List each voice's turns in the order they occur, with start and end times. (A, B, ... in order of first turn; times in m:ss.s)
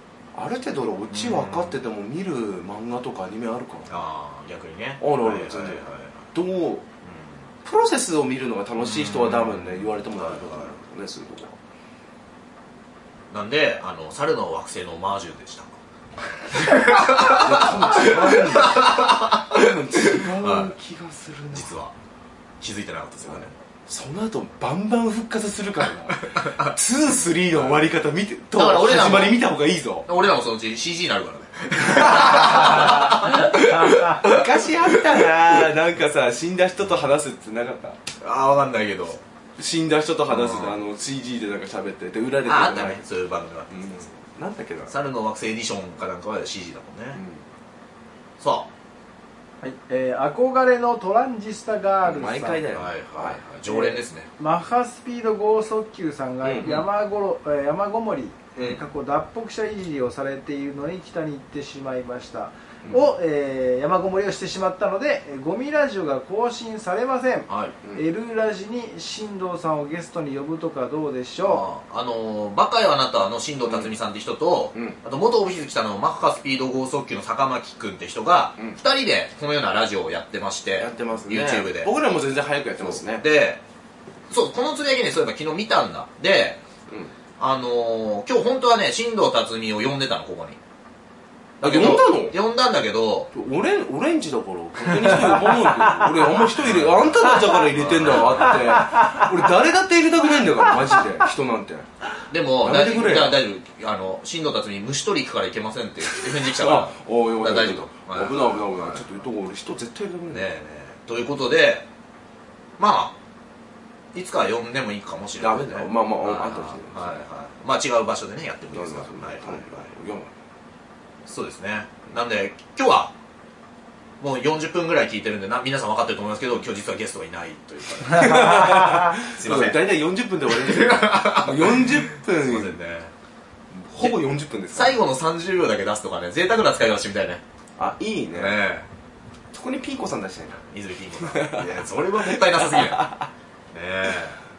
0:00.4-0:03.9 A
0:01.1-0:01.8 B
0:03.9-0:06.2 B
0:05.0-0:06.9 A
0:07.0-0:07.3 B
0:07.6-0:11.6 A
0:08.8-0:10.7 B
0:13.3-0:15.8 B
0:16.5-0:20.7 B
0:17.1-0:21.7 A
0:21.5-0:22.0 B
0:22.6-0:23.5 B
0:23.3-0:30.1 A
0:26.4-0:26.7 B
0:27.5-0:27.9 B
0:28.5-0:29.4 B
0:30.1-0:34.4 B
0:31.8-0:38.0 A
0:38.2-0:39.2 B
0:39.6-0:43.0 A
0:40.3-0:40.8 B
0:42.4-0:44.0 B
0:43.7-0:44.9 A
0:44.9-0:47.2 B
0:47.1-0:47.4 A
0:48.4-0:48.7 B
0:49.6-0:52.6 C
0:52.0-0:54.0 A
0:52.7-0:54.3 B
0:54.4-1:11.7 C
0:56.4-0:56.8 A
1:07.5-1:07.8 B
1:11.4-1:21.9 B
1:20.8-1:23.3 A
1:22.8-1:23.6 B
1:24.3-1:26.6 B
1:26.9-1:27.1 A
1:27.4-1:30.6 B
1:31.6-1:33.3 B
1:31.6-1:32.4 A
1:33.3-1:41.9 A
1:36.6-1:38.9 B
1:42.3-1:49.1 B
1:42.6-1:43.4 A
1:46.1-1:50.5 A
1:50.3-1:51.9 B
1:52.8-1:53.2 B
1:54.1-1:59.9 B
1:55.4-1:57.2 A
1:58.7-2:00.3 A
2:01.3-2:03.1 B
2:04.2-2:09.9 B
2:08.1-2:12.8 A
2:10.5-2:13.1 B
2:13.7-2:15.0 A
2:14.7-2:17.4 B
2:17.8-2:18.6 A
2:18.3-2:18.9 B
2:19.5-2:20.7 A
2:20.7-2:23.1 B
2:21.2-2:23.3 A
2:23.7-2:24.4 B